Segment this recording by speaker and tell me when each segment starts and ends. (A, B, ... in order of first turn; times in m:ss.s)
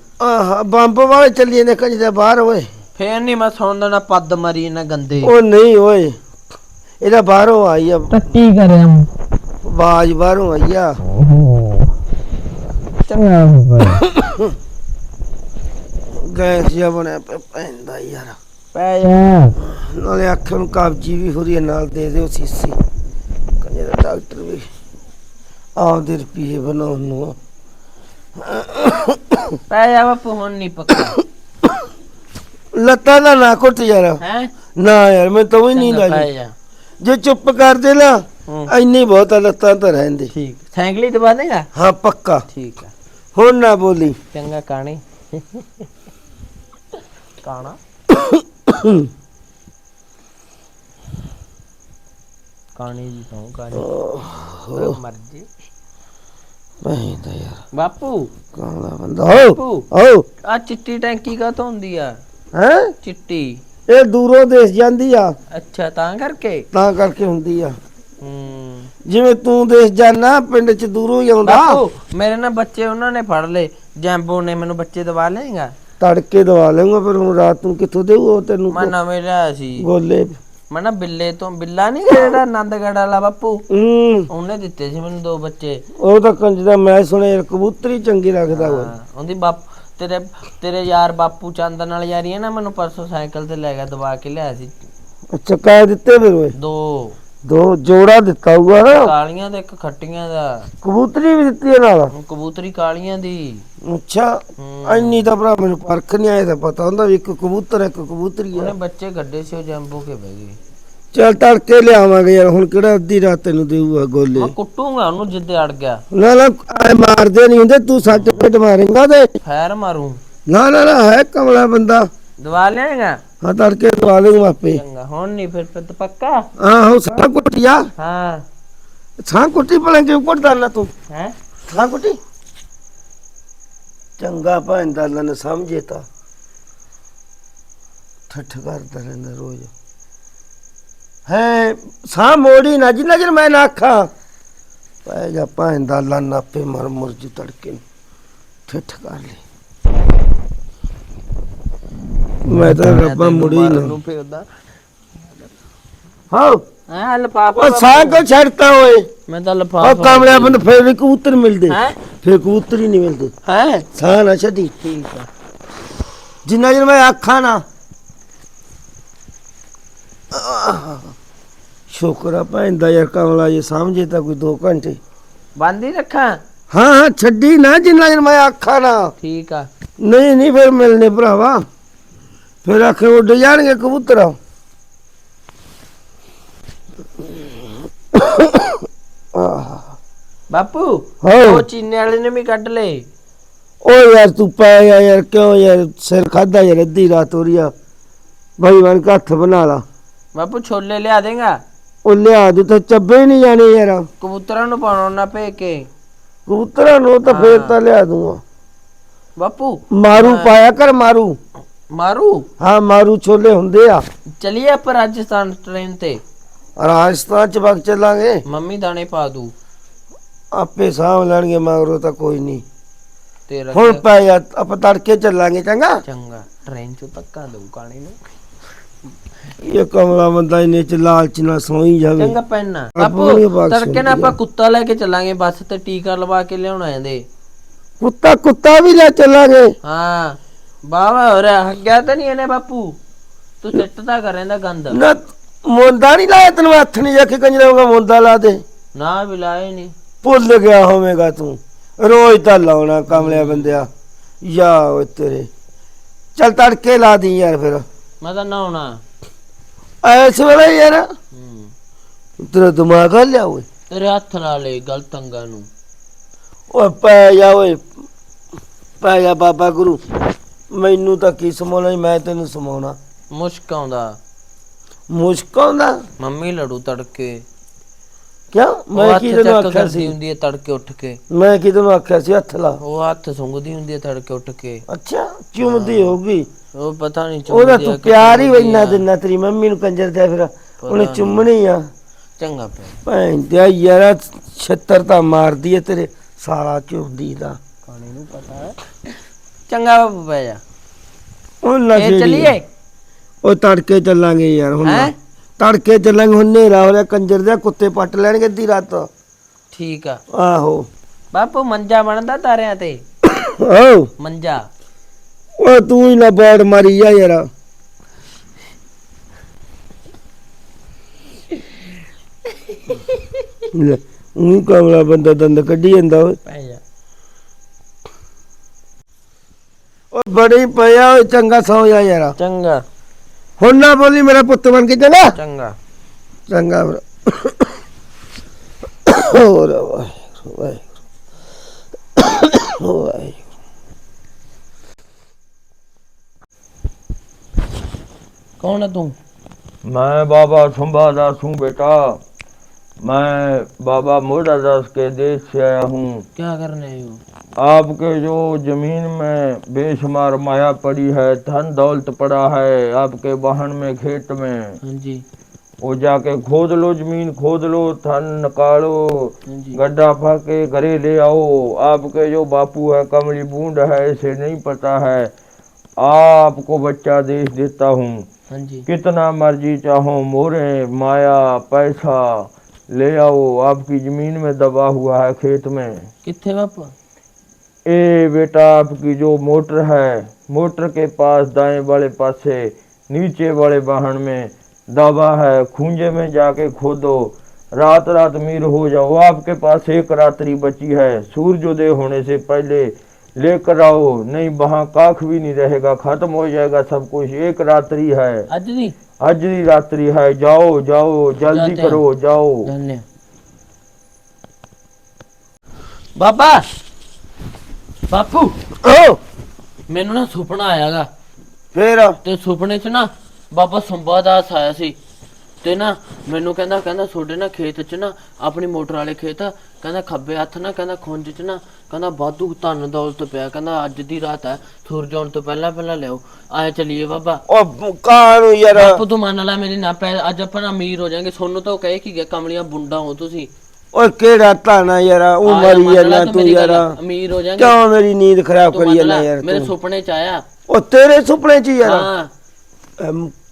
0:00.2-0:02.7 A
0:03.0-0:05.3 B
0:05.2-0:06.2 A
0:07.0-0:08.2 A
0:08.1-0:09.1 B
0:09.6-0:11.0 A
0:11.1-0:11.9 B
0:13.0-0:14.0 B
0:14.1-0:14.5 A
0:16.2-0:18.4 A
0:18.7-0:19.6 B
0:19.6-0:22.8 A
0:23.6-0:24.7 A
0:25.8-0:27.4 A
0:28.4-0:29.6 A
0:29.7-0:31.2 B
0:32.7-0:34.2 A
0:34.2-0:34.5 B
0:34.8-0:36.3 A
0:35.7-0:36.5 B
0:37.0-0:40.3 A
0:38.5-0:38.7 B
0:40.3-0:41.7 B
0:41.7-0:42.4 A
0:42.5-0:42.9 B
0:43.4-0:44.2 A
0:44.3-0:45.9 B
0:47.4-0:47.8 B
0:48.1-0:49.1 A
0:52.8-0:53.9 B
0:53.8-0:55.0 A
0:54.7-0:55.5 B
0:56.8-0:57.6 A
0:57.7-0:58.3 B
0:58.5-1:00.3 A
0:59.3-0:59.9 B
1:00.4-1:02.2 B
1:02.5-1:02.9 A
1:03.0-1:03.6 B
1:03.9-1:05.4 A
1:05.5-1:06.7 B
1:06.7-1:07.8 A
1:08.2-1:08.9 B
1:09.0-1:11.8 A
1:11.4-1:15.7 B
1:16.0-1:18.9 A
1:18.7-1:19.9 B
1:19.8-1:20.4 A
1:20.7-1:23.6 B
1:23.7-1:24.3 A
1:24.3-1:25.8 B
1:26.0-1:28.9 A
1:28.5-1:34.7 B
1:35.3-1:36.6 A
1:36.6-1:37.2 B
1:37.4-1:39.1 A
1:38.9-1:40.7 B
1:40.8-1:42.1 A
1:42.1-1:43.6 B
1:43.8-1:48.7 A
1:44.6-1:45.3 B
1:48.5-1:50.6 B
1:51.1-1:54.5 A
1:54.4-1:56.0 B
1:56.1-1:59.3 A
1:58.0-1:58.4 B
1:59.4-2:00.2 B
2:00.5-2:02.1 A
2:02.4-2:03.2 B
2:03.4-2:04.8 A
2:04.7-2:06.5 B
2:06.6-2:07.9 A
2:08.0-2:08.4 B
2:09.2-2:10.9 A
2:11.7-2:12.2 A
2:14.2-2:16.1 A
2:18.3-2:19.7 A
2:21.3-2:24.1 A
2:25.0-2:27.8 A
2:28.7-2:29.4 A
2:32.4-2:33.9 A
2:32.5-2:34.5 B
2:36.3-2:36.6 A
2:36.9-2:38.2 B
2:37.5-2:39.1 A
2:39.3-2:40.6 B
2:39.8-2:43.3 A
2:41.7-2:42.0 B
2:43.5-2:43.9 B
2:43.9-2:44.7 A
2:44.8-2:45.3 B
2:46.4-2:47.6 A
2:50.3-2:51.1 A
2:51.9-2:55.0 A
2:55.6-2:56.4 B
2:56.7-2:59.1 A
2:59.2-2:59.7 B
3:00.0-3:01.6 A
3:02.6-3:04.4 A
3:08.1-3:09.9 A
3:10.5-3:13.0 B
3:11.2-3:11.6 A
3:13.8-3:17.7 A
3:18.6-3:19.8 A
3:20.4-3:21.6 B
3:22.0-3:24.1 A
3:24.2-3:25.9 B
3:26.5-3:28.4 A
3:27.3-3:27.8 B
3:29.4-3:30.5 B
3:29.9-3:31.4 A
3:31.9-3:32.5 B
3:32.6-3:34.0 A
3:34.4-3:36.2 B
3:36.8-3:38.4 A
3:38.5-3:39.5 B
3:40.5-3:42.6 A
3:43.5-3:44.0 B
3:43.7-3:46.0 A
3:46.1-3:48.2 B
3:49.6-3:52.4 A
3:52.2-3:57.2 B
3:53.0-3:54.4 A
3:58.0-3:59.7 A
3:59.8-4:03.0 B
4:03.6-4:05.0 B
4:04.9-4:08.6 A
4:09.0-4:09.9 B
4:10.2-4:13.9 A
4:13.1-4:13.8 B
4:14.4-4:15.5 A
4:16.4-4:17.8 A
4:18.2-4:19.0 B
4:20.0-4:21.1 A
4:21.3-4:21.7 B
4:22.4-4:23.7 A
4:23.9-4:25.7 B
4:26.7-4:27.8 A
4:29.0-4:30.1 A
4:30.7-4:33.0 A
4:33.3-4:34.2 B
4:35.1-4:36.0 A
4:36.2-4:37.4 B
4:38.5-4:40.1 A
4:39.0-4:41.2 B
4:41.3-4:42.8 A
4:42.8-4:44.8 B
4:44.9-4:46.5 A
4:45.6-4:46.2 B
4:46.8-4:49.0 B
4:47.5-4:51.9 A
4:50.8-4:51.4 B
4:52.4-4:53.0 B
4:53.0-4:57.6 A
4:57.9-4:58.8 B
4:59.7-5:00.6 B
5:01.6-5:02.6 A
5:02.0-5:02.6 B
5:03.4-5:09.1 A
5:04.8-5:05.1 B
5:09.7-5:10.2 B
5:10.3-5:10.9 A
5:11.3-5:13.0 B
5:13.2-5:14.1 A
5:14.2-5:14.7 B
5:15.6-5:17.5 A
5:23.7-5:26.4 A
5:26.4-5:26.8 B
5:30.1-5:32.4 A
5:32.4-5:32.8 B
5:33.6-5:35.4 A
5:35.4-5:35.8 B
5:36.5-5:37.7 A
5:39.1-5:40.9 A
5:42.2-5:43.4 A
5:48.6-5:49.2 B
5:49.8-5:52.2 C
5:53.0-5:56.2 C
5:56.4-5:57.2 B
5:57.6-6:04.8 C
6:04.8-6:05.2 B
6:05.8-6:15.3 C
6:09.5-6:09.8 B
6:16.0-6:18.3 C
6:18.5-6:18.9 B
6:18.9-6:26.1 C
6:26.2-6:26.9 B
6:27.9-6:48.5 C
6:48.5-6:49.0 B
6:49.2-6:52.7 C
6:51.5-6:52.0 B
6:52.6-6:53.0 B
6:56.2-6:56.7 B
6:58.1-6:58.6 B
6:58.8-6:59.2 A
6:59.9-7:01.1 B
7:01.7-7:02.2 A
7:02.2-7:05.0 B
7:05.6-7:17.4 B
7:17.5-7:19.0 A
7:18.7-7:23.5 B
7:23.9-7:27.0 A
7:25.4-7:27.8 B
7:27.6-7:29.7 A
7:28.7-7:30.4 B
7:30.7-7:32.1 A
7:31.8-7:32.3 B
7:33.0-7:33.3 A